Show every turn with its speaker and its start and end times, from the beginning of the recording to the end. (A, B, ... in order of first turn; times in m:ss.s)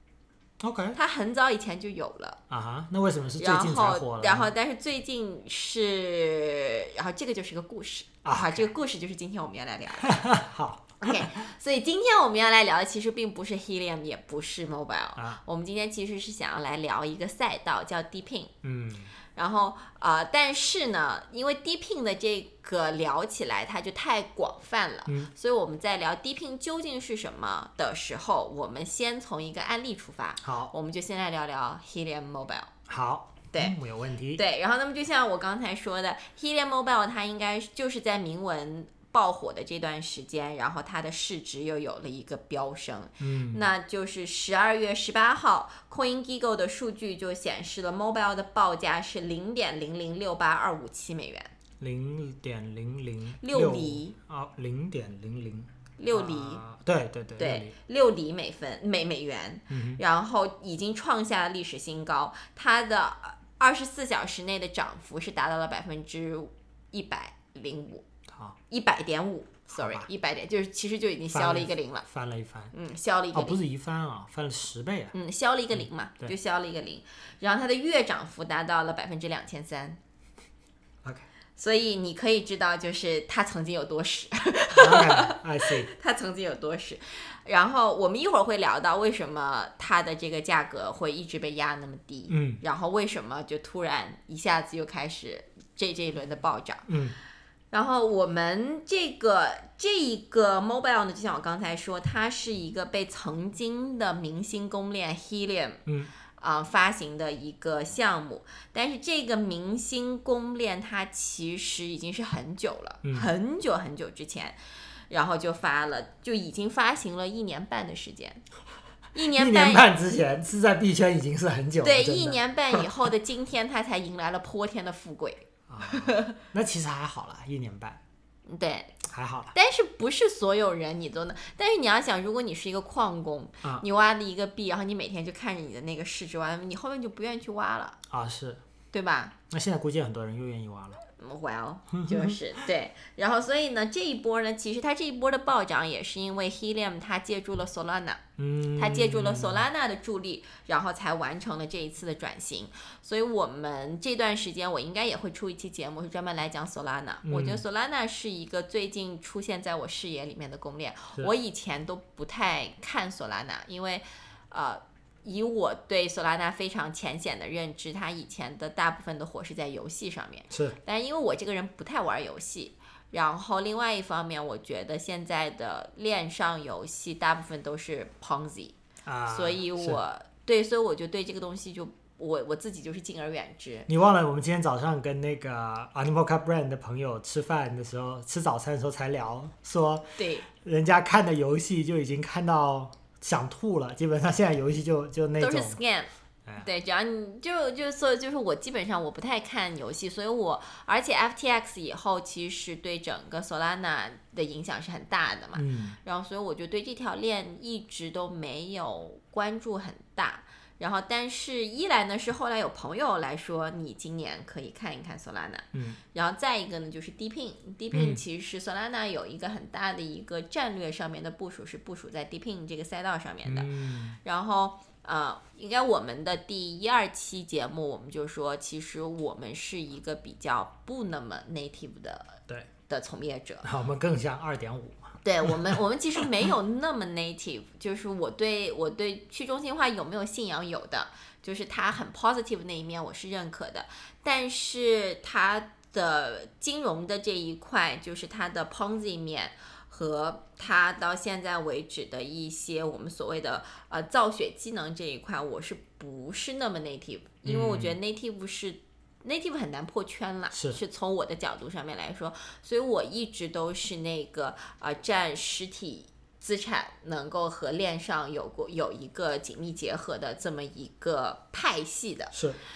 0:00.6-0:01.0 A
0:00.9-0:02.4 B
0:02.5-0:04.5 A
0:03.4-0:10.2 B
0:08.2-0:08.7 A
0:10.0-0:11.2 A
0:11.0-0:18.5 B
0:18.6-0:19.1 A
0:19.3-0:32.7 B
0:25.0-0:25.3 A
0:30.4-0:30.7 A
0:32.9-0:34.4 A
0:34.3-0:51.5 B
0:43.2-0:43.6 A
0:51.8-0:57.7 A
0:53.4-0:54.1 B
0:56.0-0:56.6 B
0:57.4-1:08.0 B
0:59.7-1:00.0 A
1:08.3-1:08.6 A
1:08.7-1:12.0 B
1:09.7-1:10.1 A
1:11.3-1:12.7 A
1:12.7-1:13.6 B
1:13.3-1:15.1 A
1:15.1-1:20.0 B
1:21.6-1:36.8 B
1:24.7-1:25.9 A
1:32.3-1:32.6 A
1:36.9-1:37.2 A
1:37.7-1:45.8 B
1:45.8-1:46.1 A
1:46.4-1:54.6 B
1:53.0-1:53.3 A
1:55.1-1:58.4 B
1:59.1-1:59.8 B
1:59.3-2:02.9 A
2:01.8-2:06.4 B
2:05.7-2:08.0 A
2:08.5-2:09.0 B
2:09.0-2:09.5 A
2:09.5-2:18.0 B
2:18.1-2:18.6 A
2:18.9-2:19.3 B
2:19.5-2:21.0 A
2:21.2-2:28.2 B
2:22.0-2:22.4 A
2:28.4-2:29.6 A
2:28.8-2:58.7 B
2:37.2-2:37.6 A
2:50.5-2:50.8 A
2:59.0-3:00.0 A
2:59.3-3:03.9 B
3:03.9-3:15.8 A
3:10.2-3:10.5 B
3:15.4-3:43.7 B
3:25.5-3:26.0 A
3:35.7-3:36.0 A
3:37.9-3:38.2 A
3:43.4-3:44.2 A
3:44.2-3:53.7 B
3:53.6-3:55.8 A
3:55.2-4:32.3 B
4:17.4-4:18.0 A
4:20.5-4:20.8 A
4:32.3-4:32.6 A